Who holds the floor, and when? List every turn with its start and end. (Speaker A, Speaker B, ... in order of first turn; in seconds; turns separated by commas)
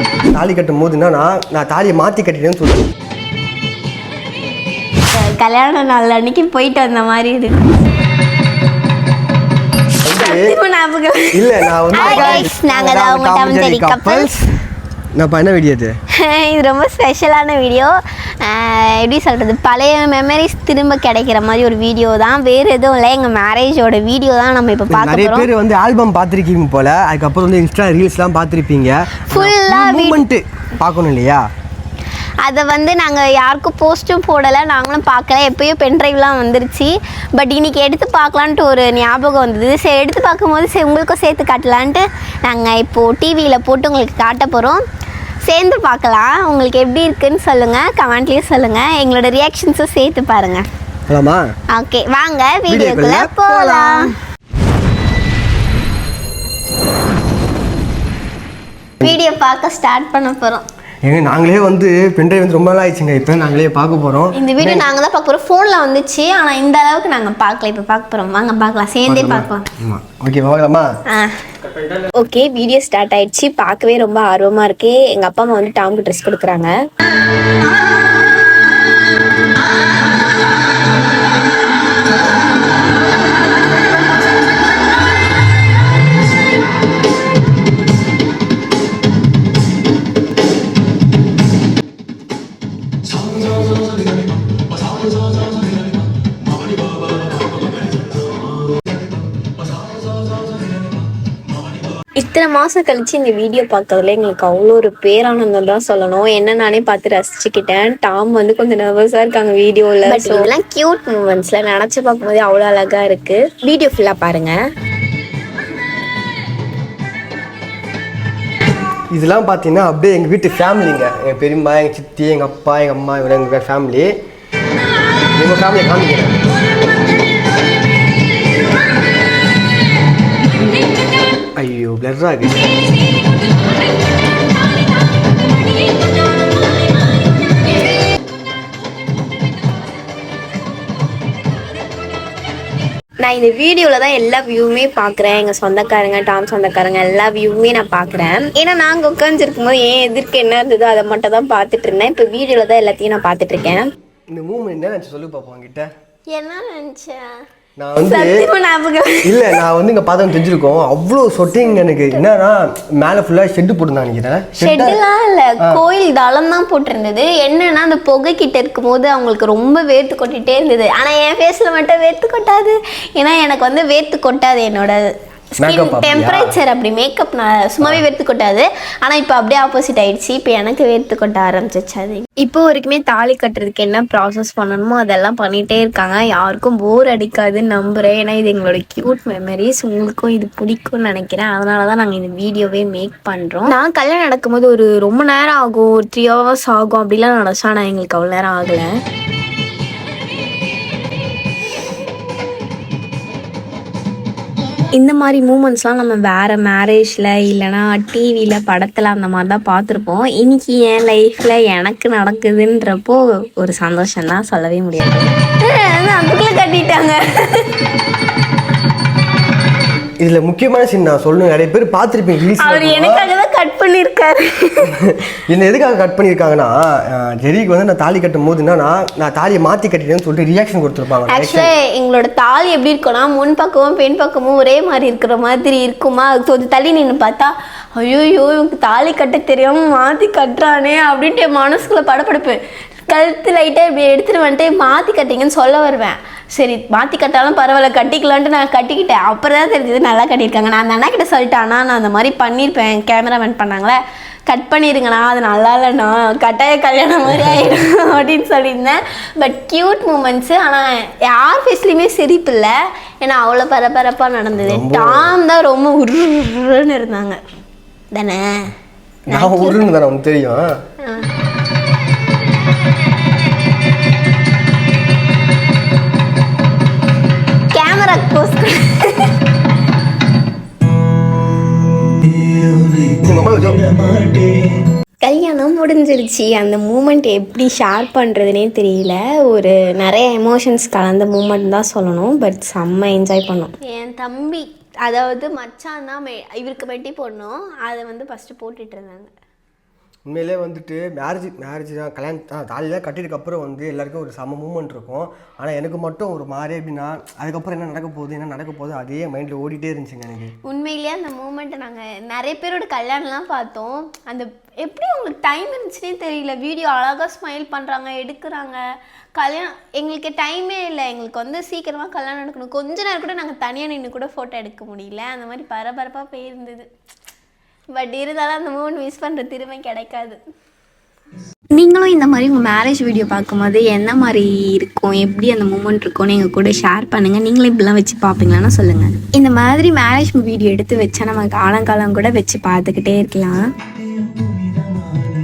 Speaker A: 0.3-2.9, Speaker B: 5.1-7.6, Speaker A: 10.0-10.5, Speaker B: 10.1-14.3, Speaker A: 11.3-14.4, Speaker A: 15.1-15.9, Speaker B: 16.1-25.5, Speaker A: 24.9-31.4, Speaker B: 29.3-30.2, Speaker B: 32.4-44.8, Speaker B: 45.4-50.7, Speaker A: 51.1-51.4, Speaker B: 51.7-54.1, Speaker A: 52.7-54.1, Speaker B: 59.0-60.6, Speaker A: 61.0-64.9, Speaker B: 64.3-69.7, Speaker A: 69.1-70.8, Speaker B: 71.1-71.4, Speaker C: 72.2-76.7, Speaker C: 102.2-114.5, Speaker B: 110.1-110.6, Speaker A: 119.1-124.1, Speaker A: 125.3-126.4, Speaker A: 131.6-132.8, Speaker C: 143.2-153.9, Speaker A: 154.3-155.9, Speaker B: 156.3-157.3, Speaker A: 157.8-158.4, Speaker B: 158.0-159.6, Speaker A: 159.2-165.0, Speaker B: 164.6-182.2, Speaker A: 175.6-176.6, Speaker C: 182.4-198.9, Speaker C: 204.9-215.3, Speaker B: 215.6-217.7, Speaker A: 220.2-223.3, Speaker B: 222.6-225.0, Speaker A: 225.0-231.7, Speaker B: 231.3-267.4, Speaker A: 264.6-265.3, Speaker B: 268.1-268.7, Speaker B: 269.3-269.8, Speaker A: 269.3-270.7, Speaker B: 271.0-271.3, Speaker B: 277.7-279.3, Speaker A: 283.1-283.9, Speaker C: 285.2-293.7, Speaker B: 293.8-299.3, Speaker A: 300.3-310.6, Speaker B: 310.6-318.8, Speaker B: 319.4-326.9, Speaker B: 327.9-330.4, Speaker C: 331.8-343.6